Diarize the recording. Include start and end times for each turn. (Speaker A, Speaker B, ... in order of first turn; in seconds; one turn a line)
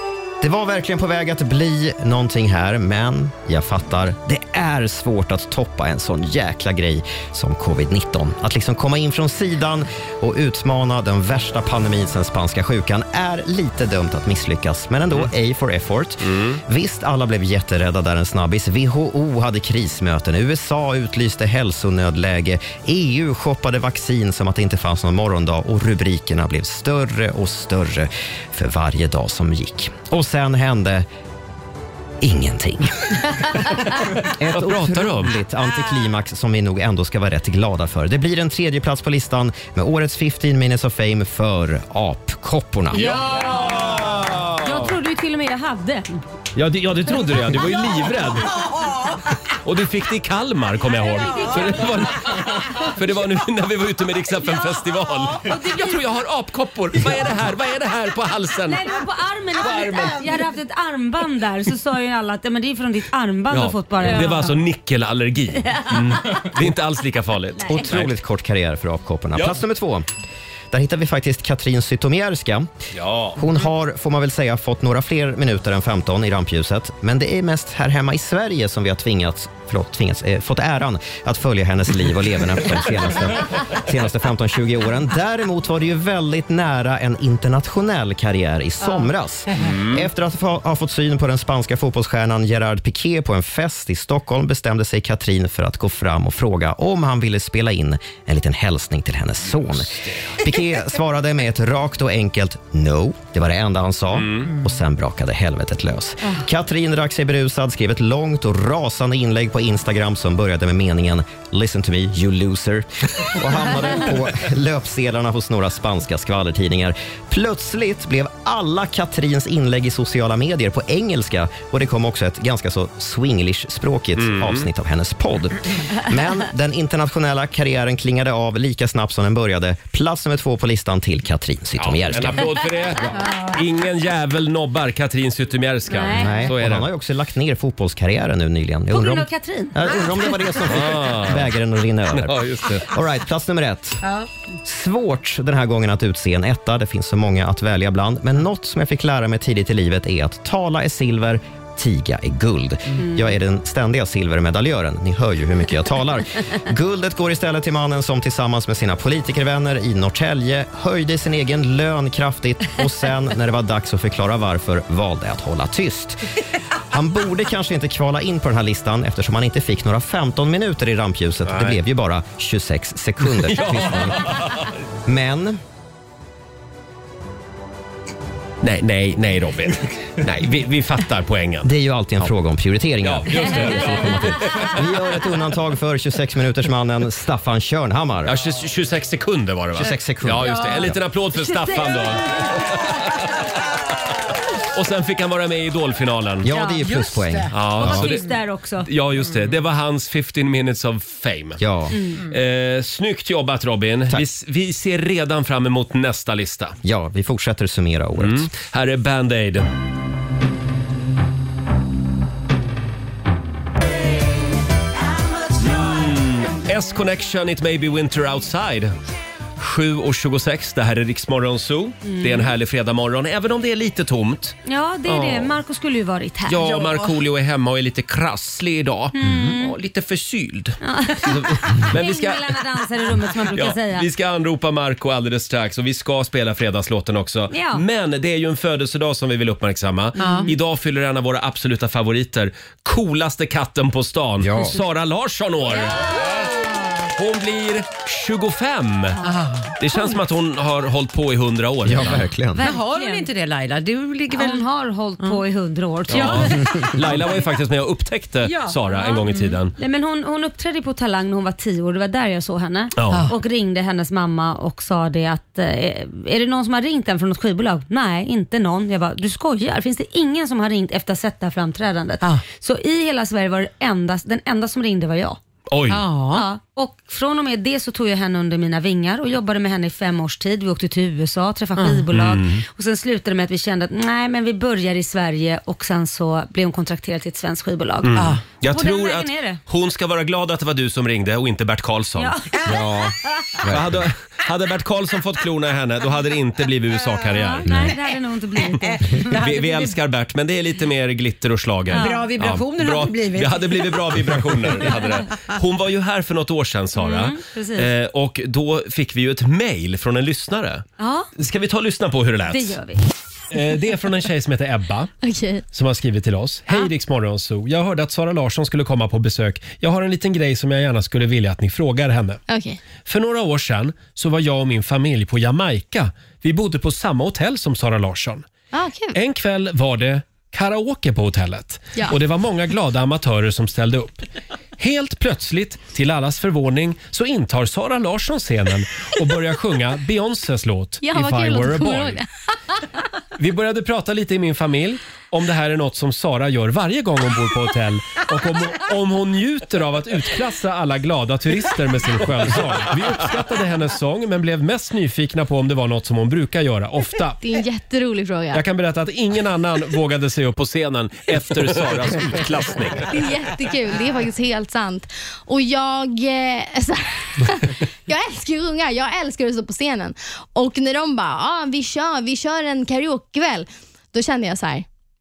Speaker A: 0.4-31.1
Speaker B: 16.2-16.6
Speaker A: 32.2-43.2
Speaker B: 34.4-35.4
Speaker B: 42.9-44.9
Speaker C: 42.9-44.0
Speaker C: 44.6-46.2
Speaker B: 46.5-48.6
Speaker B: 49.6-58.9
Speaker C: 51.0-51.9
Speaker C: 55.4-56.0
Speaker C: 58.7-64.5
Speaker B: 59.6-60.4
Speaker B: 63.5-68.1
Speaker C: 65.7-66.4
Speaker A: 67.7-70.0
Speaker B: 69.3-69.6
Speaker A: 70.7-72.7
Speaker B: 72.9-73.4
Speaker A: 73.3-132.5
Speaker B: 89.6-90.0
Speaker B: 99.5-100.4
Speaker B: 104.1-104.5
Speaker B: 124.2-124.7
Speaker B: 131.8-136.9
Speaker C: 135.9-136.4
Speaker A: 136.1-144.0
Speaker C: 138.9-140.4
Speaker B: 140.7-141.6
Speaker B: 142.1-142.9
Speaker A: 144.6-166.2
Speaker A: 166.9-174.3
Speaker B: 171.5-171.8
Speaker B: 173.3-174.7
Speaker A: 175.1-175.6
Speaker B: 178.6-181.7
Speaker A: 181.6-188.3
Speaker B: 183.0-184.9
Speaker B: 188.2-193.5
Speaker A: 189.7-191.0
Speaker C: 190.5-190.8
Speaker C: 191.4-192.4
Speaker B: 194.7-196.5
Speaker A: 196.4-198.1
Speaker C: 196.5-196.9
Speaker D: 196.8-197.5
Speaker B: 197.5-198.2
Speaker C: 197.8-198.9
Speaker B: 198.8-201.6
Speaker A: 201.6-202.0
Speaker C: 201.9-202.2
Speaker B: 202.2-206.8
Speaker A: 206.8-208.5
Speaker B: 208.2-209.7
Speaker B: 215.6-218.9
Speaker B: 219.6-225.6
Speaker C: 222.0-222.5
Speaker C: 224.6-226.8
Speaker B: 226.4-232.6
Speaker D: 226.7-227.0
Speaker C: 229.1-229.7
Speaker C: 230.8-234.1
Speaker B: 233.5-246.6
Speaker C: 237.5-237.8
Speaker D: 240.2-240.5
Speaker C: 240.2-240.5
Speaker A: 244.4-244.8
Speaker C: 245.8-246.5
Speaker B: 247.1-249.2
Speaker D: 249.2-249.7
Speaker B: 249.8-252.3
Speaker A: 251.8-252.7
Speaker C: 252.6-253.2
Speaker D: 252.6-254.7
Speaker C: 254.3-256.9
Speaker B: 256.1-259.7
Speaker D: 256.1-256.5
Speaker C: 258.9-275.4
Speaker B: 262.9-263.3
Speaker D: 263.1-263.3
Speaker B: 275.7-276.0
Speaker D: 275.9-276.5
Speaker C: 276.3-289.6
Speaker D: 281.8-282.0
Speaker B: 282.1-282.6
Speaker B: 288.0-292.4
Speaker D: 288.1-288.4
Speaker C: 292.2-292.5
Speaker A: 292.6-294.0
Speaker B: 293.7-297.7
Speaker C: 297.4-299.3
Speaker A: 297.7-297.9
Speaker D: 298.8-299.9
Speaker B: 299.3-310.8
Speaker D: 301.9-305.0
Speaker C: 301.9-302.3
Speaker C: 307.0-307.9
Speaker C: 311.0-311.3
Speaker B: 311.4-312.8
Speaker C: 312.5-313.0
Speaker B: 313.5-315.1
Speaker E: 315.2-315.6
Speaker B: 315.7-322.4
Speaker E: 322.5-322.8
Speaker B: 323.0-328.4
Speaker E: 328.7-329.1
Speaker B: 329.1-334.3
Speaker B: 334.8-342.2
Speaker E: 341.0-342.3
Speaker B: 343.4-357.4
Speaker E: 357.4-358.6
Speaker B: 358.5-363.1
Speaker E: 363.1-374.9